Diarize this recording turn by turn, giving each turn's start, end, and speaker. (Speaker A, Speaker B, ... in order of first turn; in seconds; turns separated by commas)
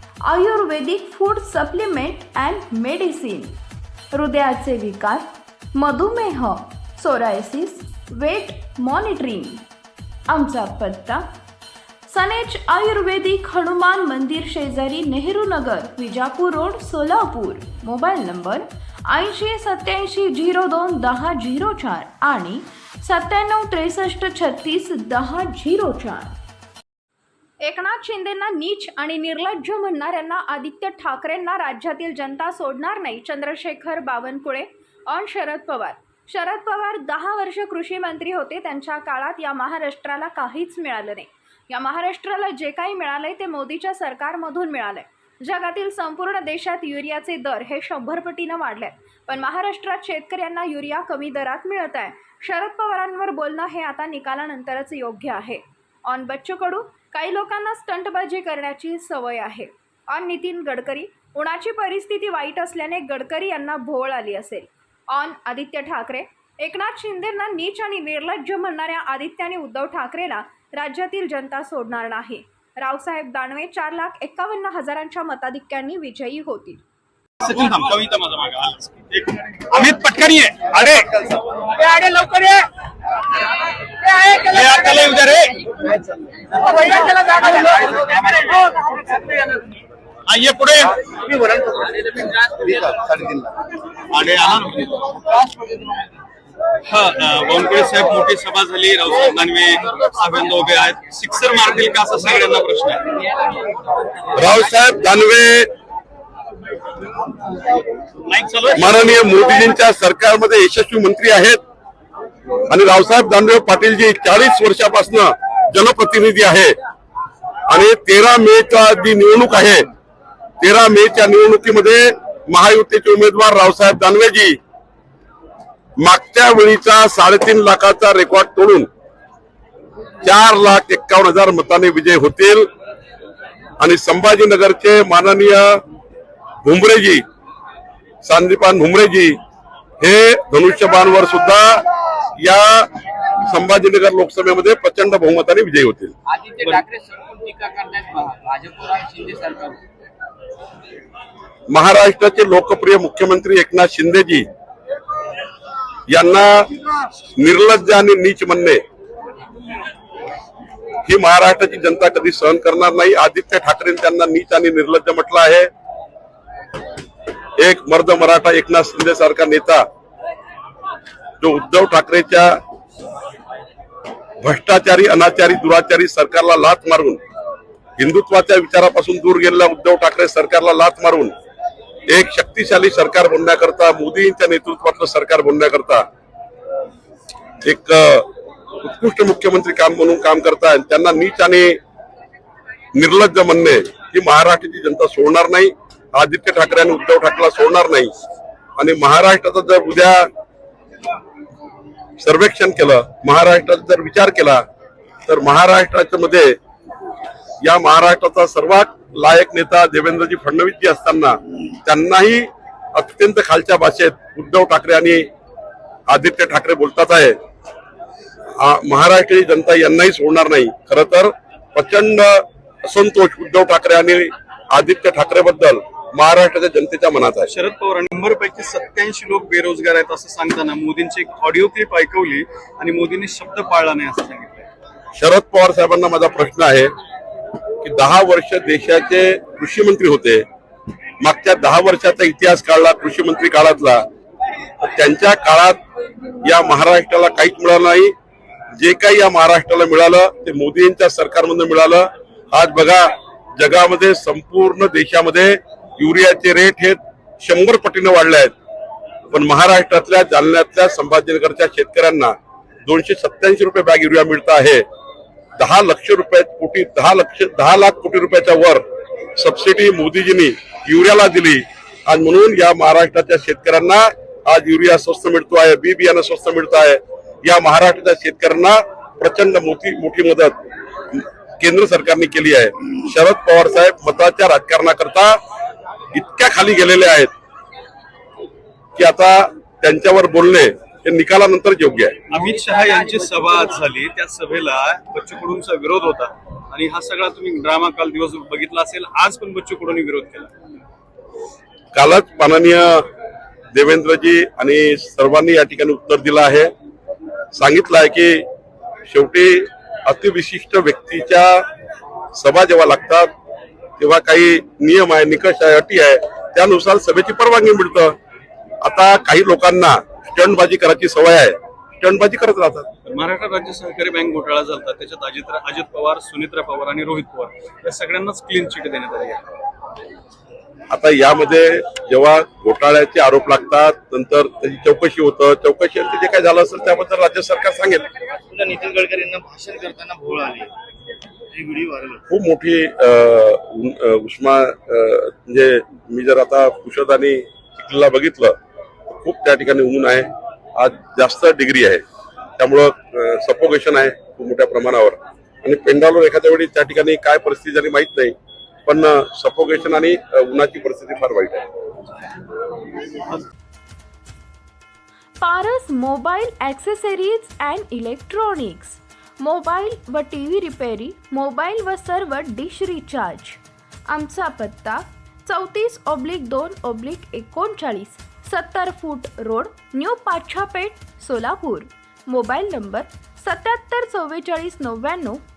Speaker A: 0.2-3.5, Speaker A: 4.1-9.6, Speaker A: 10.3-11.2, Speaker A: 12.1-26.3, Speaker A: 27.6-76.8, Speaker B: 77.4-82.6, Speaker B: 84.2-85.6, Speaker B: 90.3-91.0, Speaker C: 92.6-93.5, Speaker B: 94.1-95.0, Speaker B: 96.8-103.0, Speaker D: 104.3-105.7, Speaker B: 108.3-109.0, Speaker D: 108.8-111.6, Speaker D: 112.7-116.7, Speaker D: 117.7-119.8, Speaker D: 120.6-124.6, Speaker D: 126.0-128.9, Speaker D: 130.2-132.7, Speaker D: 133.8-135.8, Speaker D: 136.6-137.2, Speaker D: 138.2-139.3, Speaker D: 140.0-141.8, Speaker D: 142.4-142.9, Speaker D: 143.4-146.1, Speaker E: 146.3-149.8, Speaker D: 151.7-154.4, Speaker D: 156.1-156.7, Speaker D: 157.3-158.8, Speaker D: 161.0-165.7, Speaker D: 167.6-169.8, Speaker D: 171.4-172.6, Speaker D: 174.4-177.2, Speaker D: 178.0-181.3, Speaker D: 182.1-186.1, Speaker D: 187.6-188.3, Speaker D: 188.8-191.8, Speaker D: 192.9-198.1, Speaker D: 198.8-200.3, Speaker D: 202.2-204.6, Speaker D: 205.3-206.6, Speaker D: 207.6-215.3, Speaker D: 216.1-217.4, Speaker D: 218.6-227.5, Speaker B: 227.5-234.7, Speaker D: 235.2-236.9, Speaker D: 237.8-240.4, Speaker D: 241.2-244.0, Speaker D: 244.8-245.8, Speaker D: 246.4-248.1, Speaker D: 248.8-258.5, Speaker D: 259.3-262.3, Speaker D: 262.9-264.8, Speaker D: 265.6-268.8, Speaker D: 269.4-280.6, Speaker D: 281.1-285.4, Speaker D: 286.1-287.3, Speaker D: 288.9-292.1, Speaker B: 292.3-300.5, Speaker D: 301.9-303.1, Speaker D: 303.7-306.7, Speaker D: 307.5-308.4, Speaker D: 309.1-311.6, Speaker D: 312.3-313.3, Speaker D: 314.0-318.1, Speaker D: 318.8-322.9, Speaker B: 323.1-329.4, Speaker D: 330.9-338.0, Speaker C: 338.5-340.7, Speaker C: 341.5-342.2, Speaker D: 342.3-348.6, Speaker D: 349.1-352.0, Speaker D: 352.6-361.7, Speaker A: 365.4-385.4